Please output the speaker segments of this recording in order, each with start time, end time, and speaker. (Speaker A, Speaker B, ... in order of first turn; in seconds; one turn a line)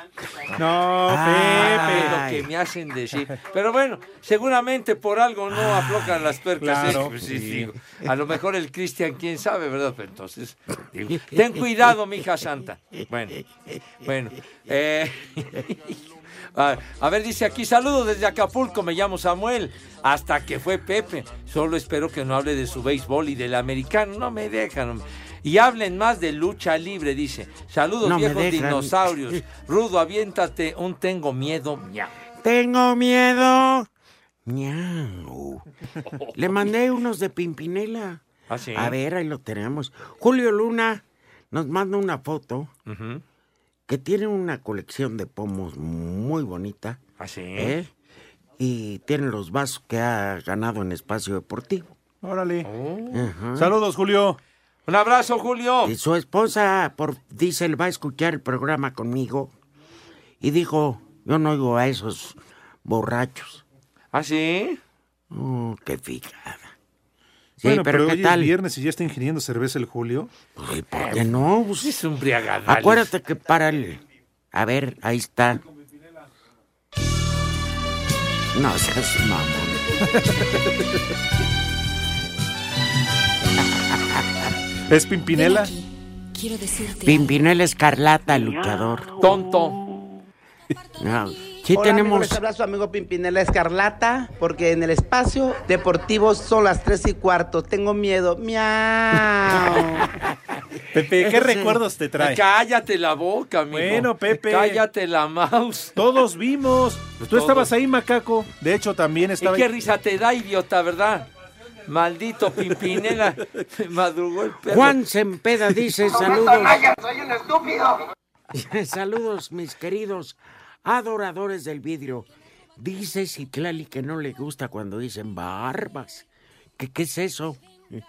Speaker A: 0.6-2.2
Speaker B: 1.1-2.5
Speaker C: 1.5-13.4
Speaker B: 5.5-6.3
Speaker A: 6.6-7.7
Speaker C: 14.0-16.0
Speaker C: 16.6-32.1
Speaker B: 28.0-29.4
Speaker B: 32.4-33.9
Speaker B: 34.5-35.6
Speaker B: 36.4-38.2
Speaker C: 38.5-39.0
Speaker B: 38.8-42.7
Speaker C: 42.9-43.2
Speaker B: 43.9-47.0
Speaker C: 47.2-47.8
Speaker B: 47.5-47.9
Speaker B: 48.6-51.9
Speaker A: 52.2-52.7
Speaker C: 52.6-53.3
Speaker B: 53.1-53.7
Speaker A: 53.6-54.4
Speaker C: 54.9-55.9
Speaker B: 55.8-59.5
Speaker B: 60.4-63.6
Speaker C: 64.1-64.8
Speaker B: 65.3-66.7
Speaker B: 67.6-68.5
Speaker A: 67.6-70.3
Speaker B: 70.6-71.9
Speaker C: 70.9-73.1
Speaker B: 72.7-74.0
Speaker B: 74.5-75.6
Speaker B: 78.5-79.8
Speaker A: 84.9-85.7
Speaker D: 85.3-87.3
Speaker B: 87.0-89.2
Speaker C: 89.2-89.8
Speaker B: 91.0-92.4
Speaker E: 91.7-99.2
Speaker A: 100.9-102.4
Speaker B: 101.2-101.8
Speaker C: 102.2-106.0
Speaker A: 103.7-104.8
Speaker A: 106.0-109.7
Speaker C: 107.2-107.7
Speaker C: 109.4-111.3
Speaker C: 111.9-115.0
Speaker B: 114.7-117.0
Speaker B: 118.5-126.3
Speaker B: 126.8-127.6